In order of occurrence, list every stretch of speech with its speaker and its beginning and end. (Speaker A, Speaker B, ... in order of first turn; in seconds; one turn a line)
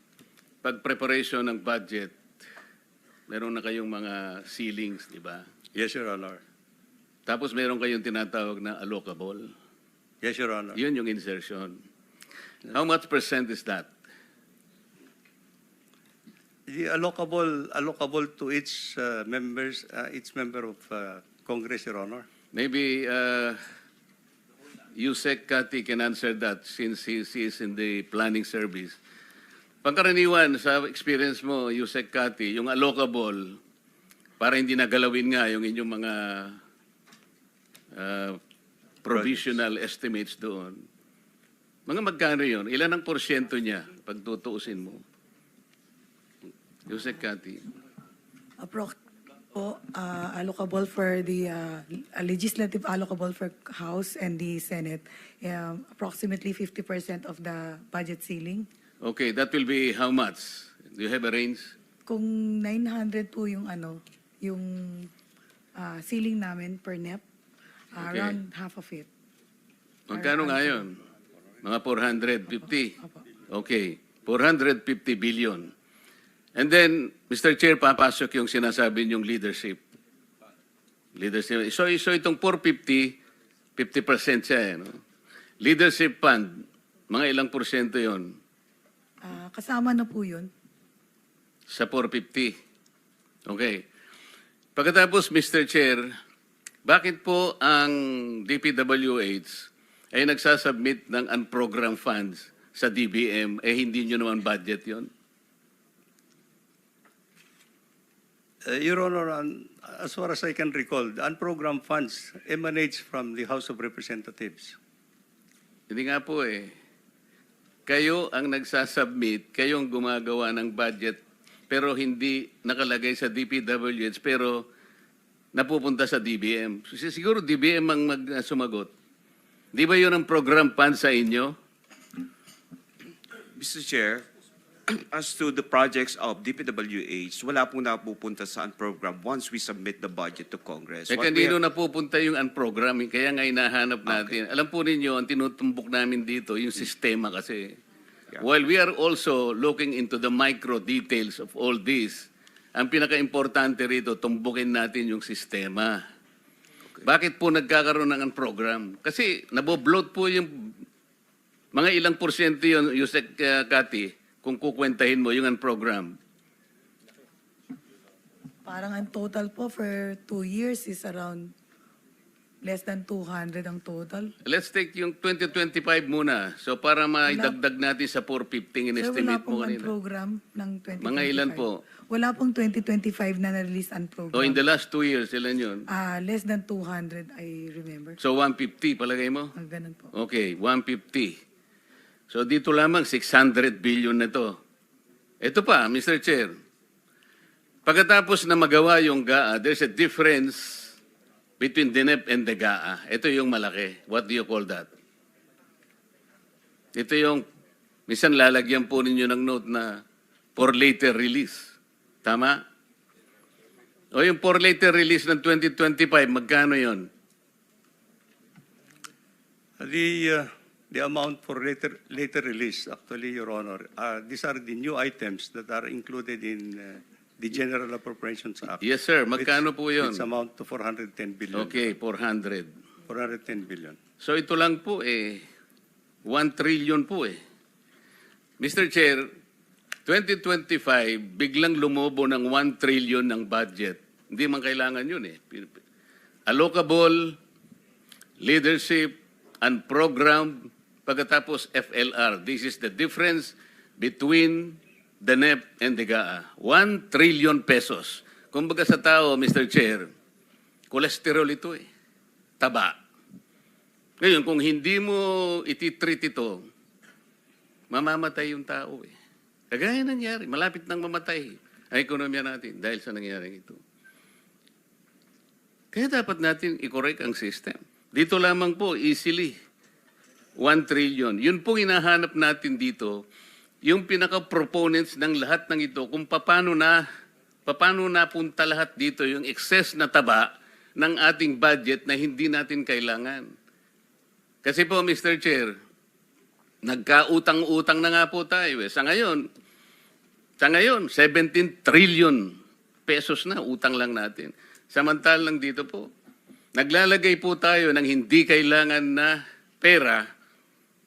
Speaker A: 0.6-2.2
Speaker A: 3.3-5.5
Speaker B: 5.8-6.4
Speaker A: 7.3-9.5
Speaker B: 10.2-10.8
Speaker A: 10.8-11.8
Speaker A: 12.7-13.9
Speaker B: 16.7-22.2
Speaker A: 22.5-23.6
Speaker A: 24.9-29.0
Speaker A: 29.8-33.6
Speaker A: 34.4-36.6
Speaker A: 37.9-38.4
Speaker A: 39.0-40.8
Speaker A: 41.9-45.0
Speaker A: 46.9-47.6
Speaker C: 48.6-49.0
Speaker C: 49.5-58.7
Speaker A: 59.0-61.8
Speaker C: 62.1-65.1
Speaker C: 65.8-67.2
Speaker C: 67.9-69.1
Speaker A: 68.0-68.4
Speaker A: 70.1-71.0
Speaker C: 70.1-70.8
Speaker A: 71.6-73.0
Speaker A: 73.5-75.7
Speaker A: 76.6-79.8
Speaker A: 81.2-83.2
Speaker A: 83.8-85.0
Speaker A: 85.6-88.3
Speaker C: 89.2-90.5
Speaker A: 91.7-92.5
Speaker A: 93.5-93.8
Speaker A: 94.8-96.1
Speaker A: 96.8-105.1
Speaker B: 108.7-114.8
Speaker A: 115.9-116.7
Speaker A: 117.9-124.7
Speaker A: 125.5-128.9
Speaker A: 129.7-131.6
Speaker D: 133.5-134.3
Speaker D: 134.9-141.6
Speaker A: 141.1-147.8
Speaker D: 144.1-144.4
Speaker A: 148.4-156.0
Speaker A: 157.0-160.7
Speaker A: 161.7-166.2
Speaker C: 168.7-171.5
Speaker C: 172.6-174.3
Speaker A: 174.4-179.9
Speaker C: 177.3-177.6
Speaker C: 179.0-184.6
Speaker A: 181.0-181.8
Speaker A: 184.3-185.9
Speaker C: 185.9-188.2
Speaker A: 188.2-189.5
Speaker C: 189.6-190.1
Speaker A: 190.2-191.4
Speaker A: 192.3-194.6
Speaker A: 195.4-196.5
Speaker A: 197.9-201.0
Speaker A: 201.6-204.9
Speaker A: 206.9-207.4
Speaker A: 208.1-210.0
Speaker A: 210.6-212.6
Speaker A: 214.1-217.1
Speaker B: 219.8-228.8
Speaker A: 228.8-230.2
Speaker B: 229.4-231.9
Speaker A: 231.5-232.7
Speaker B: 233.1-234.0
Speaker A: 234.2-235.4
Speaker A: 236.3-237.4
Speaker A: 238.6-239.3
Speaker A: 240.1-245.8
Speaker A: 246.5-247.4
Speaker A: 248.4-260.1
Speaker A: 260.9-261.9
Speaker A: 262.6-263.0
Speaker A: 264.2-266.7
Speaker A: 267.9-269.1
Speaker A: 269.7-273.8
Speaker A: 275.9-279.6
Speaker A: 280.6-283.2
Speaker A: 283.8-287.0
Speaker A: 287.7-293.5
Speaker A: 294.6-295.8
Speaker A: 296.8-299.4
Speaker A: 300.6-302.6
Speaker A: 303.1-306.1
Speaker A: 306.8-310.2